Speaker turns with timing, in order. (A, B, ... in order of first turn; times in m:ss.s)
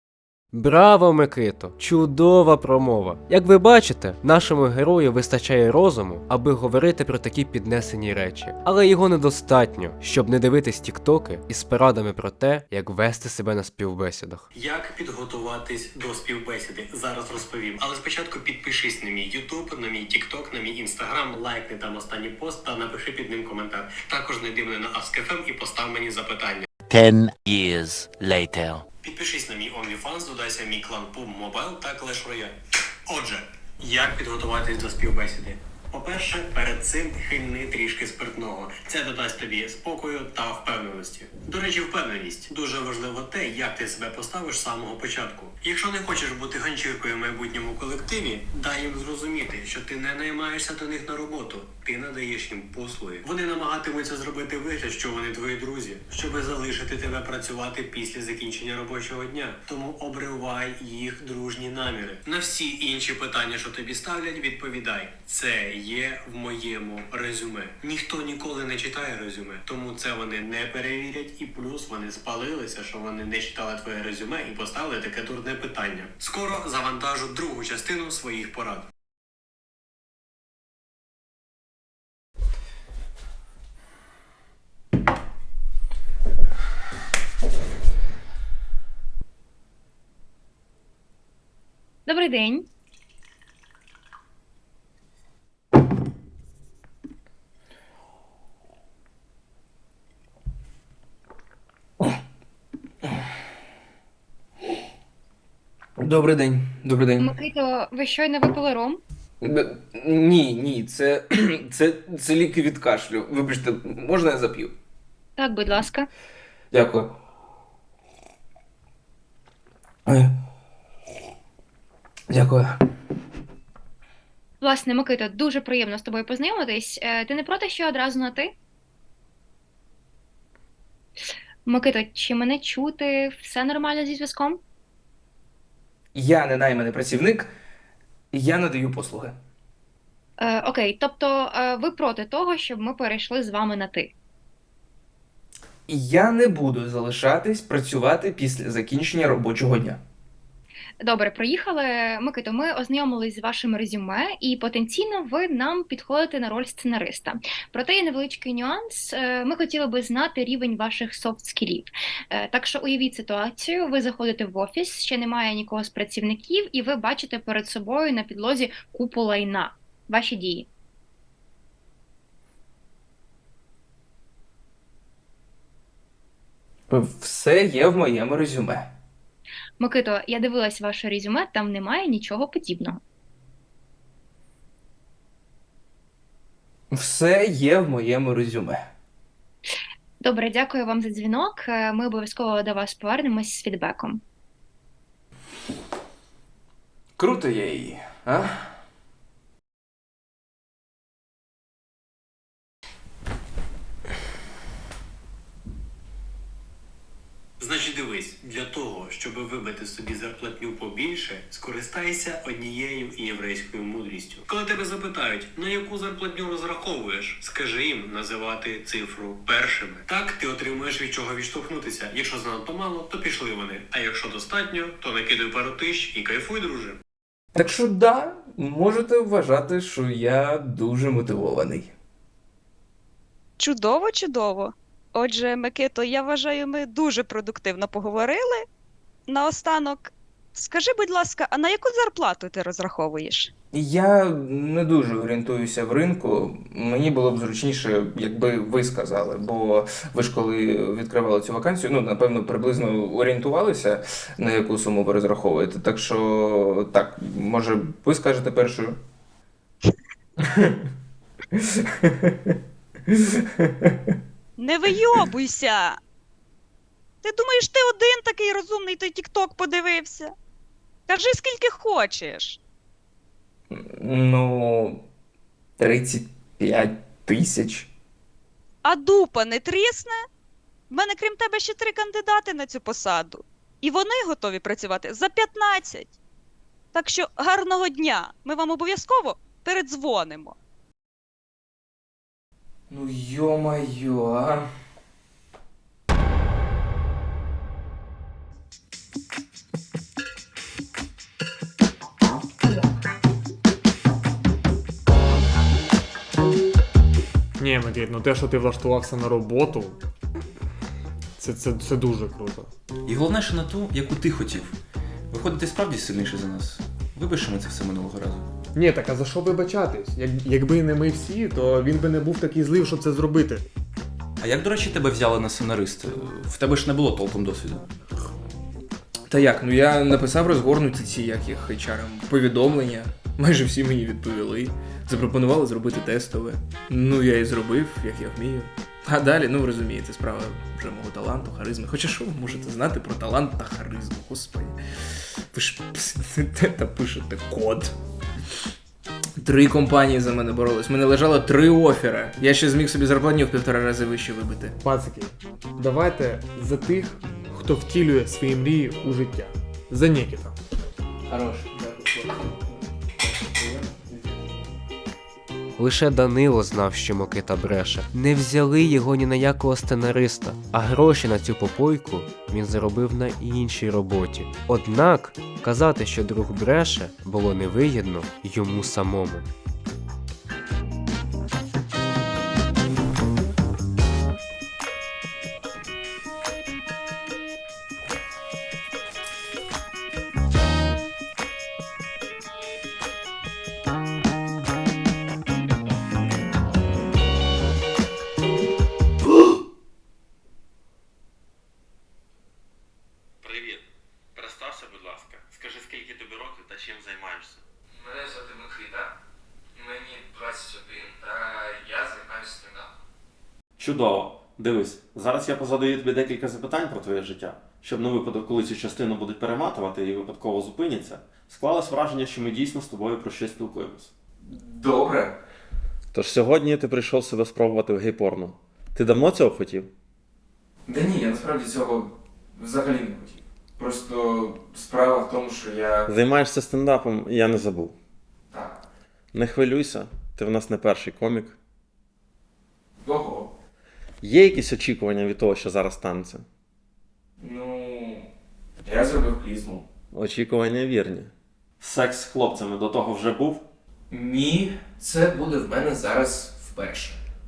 0:00.5-0:14.4 A
0:14.5-0:26.7 B
0:26.9-0:28.8 C
0:29.0-0:32.6 B
0:33.1-1:18.9 B
1:32.1-1:32.7 D
1:46.0-1:47.3 E
1:47.2-1:49.0 D
1:49.4-1:54.8 E
1:55.4-1:56.1 D
1:56.7-1:57.1 E
2:00.1-2:00.3 E
2:02.3-2:02.8 E
2:04.6-2:08.5 D
2:11.6-2:14.6 D
2:16.1-2:17.5 E
2:18.3-2:19.3 E
2:20.4-2:24.1 D
2:25.9-2:30.0 E
2:31.0-2:50.7 D
2:56.9-2:58.9 E
2:59.8-3:03.0 D
3:06.9-3:08.8 E
3:10.2-3:14.2 D
3:17.2-3:18.6 E
3:27.6-3:47.0 B
3:47.6-3:51.9 E
3:53.6-3:58.7 F
3:59.3-4:03.5 F
4:03.7-4:19.0 E
4:21.6-4:22.3 E
4:23.1-4:23.9 E
4:24.6-4:26.0 F
4:27.2-4:30.3 F
4:31.1-4:32.6 F
4:33.7-4:35.0 E
4:35.8-4:37.9 E
4:38.8-4:40.3 F
4:40.9-4:46.1 F
4:46.9-4:50.6 F
4:52.9-4:54.6 E
5:07.6-5:10.0 G
5:11.4-5:12.7 G
5:13.1-5:14.8 H
5:15.3-5:18.4 H
5:18.7-5:23.6 G
5:24.4-5:27.8 H
5:29.3-5:44.8 E
5:45.5-5:47.9 E
5:49.4-5:54.8 E
5:54.8-6:00.6 G
6:01.3-6:02.2 E
6:05.8-6:19.4 A
6:43.4-6:47.6 I
6:48.0-6:49.1 E
6:49.8-6:52.9 E
6:53.8-7:04.1 I
7:04.5-7:05.3 E
7:06.1-7:09.9 I
7:10.9-7:16.1 E
7:16.1-7:18.0 I
7:19.3-7:21.6 I
7:23.0-7:23.5 E
7:24.2-7:26.4 I
7:27.4-7:28.3 E
7:28.8-7:29.8 E
7:30.1-7:33.7 I
7:34.1-7:37.2 E